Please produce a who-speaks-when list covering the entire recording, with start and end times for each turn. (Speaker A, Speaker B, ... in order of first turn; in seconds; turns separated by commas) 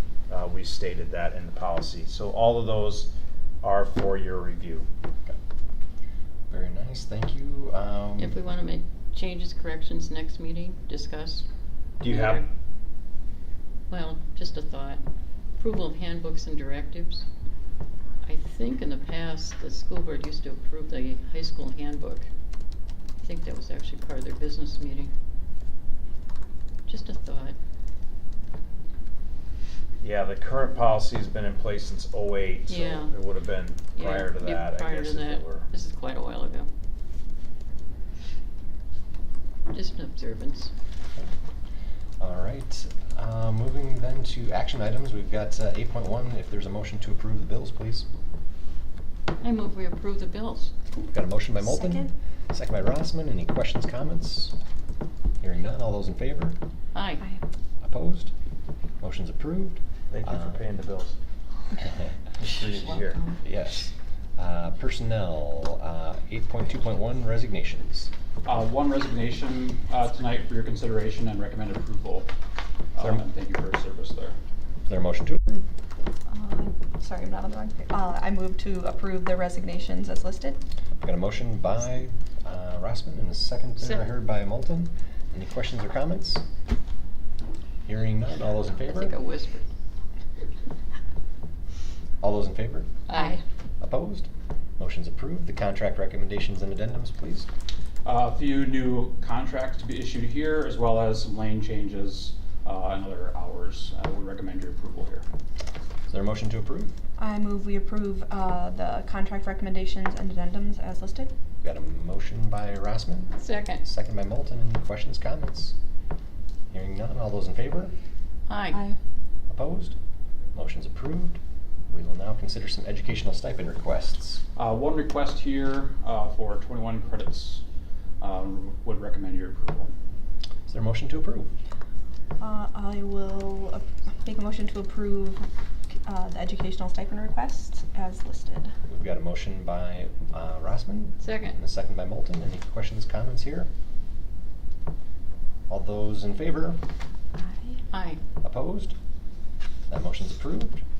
Speaker A: 0.3-3.1, Speaker A: 3.6-4.9, Speaker B: 6.5-8.4, Speaker C: 8.2-11.5, Speaker A: 12.0-12.4, Speaker C: 12.1-12.4, Speaker C: 13.9-15.0, Speaker C: 15.6-17.3, Speaker C: 18.2-22.3, Speaker C: 23.2-25.1, Speaker C: 26.9-27.6, Speaker A: 30.0-35.7, Speaker C: 32.7-33.1, Speaker C: 34.0-36.7, Speaker C: 39.7-40.7, Speaker B: 42.2-48.1, Speaker C: 49.4-50.7, Speaker B: 51.1-54.5, Speaker D: 51.6-52.1, Speaker B: 55.4-56.6, Speaker C: 56.9-57.2, Speaker B: 57.8-58.3, Speaker B: 59.0-60.6, Speaker A: 60.1-61.2, Speaker A: 62.4-63.2, Speaker B: 63.4-68.1, Speaker E: 68.5-72.3, Speaker E: 73.1-74.4, Speaker B: 74.9-75.7, Speaker D: 76.3-80.6, Speaker B: 81.0-86.4, Speaker B: 87.8-89.2, Speaker C: 88.7-89.7, Speaker B: 92.2-92.9, Speaker C: 93.1-93.4, Speaker B: 93.8-97.5, Speaker E: 98.0-105.3, Speaker B: 106.1-107.0, Speaker D: 107.2-111.3, Speaker B: 111.6-115.8, Speaker C: 113.4-113.8, Speaker B: 116.7-117.9, Speaker C: 118.5-118.8, Speaker D: 118.7-119.0, Speaker B: 119.5-120.0, Speaker B: 120.5-124.4, Speaker E: 124.6-127.6, Speaker E: 128.2-129.9, Speaker B: 130.7-131.5, Speaker D: 132.4-135.4, Speaker D: 136.0-138.7, Speaker B: 138.9-143.7, Speaker C: 141.2-141.6, Speaker B: 145.7-146.8, Speaker D: 147.4-147.8, Speaker C: 147.9-148.2, Speaker B: 148.4-149.0, Speaker B: 149.9-150.8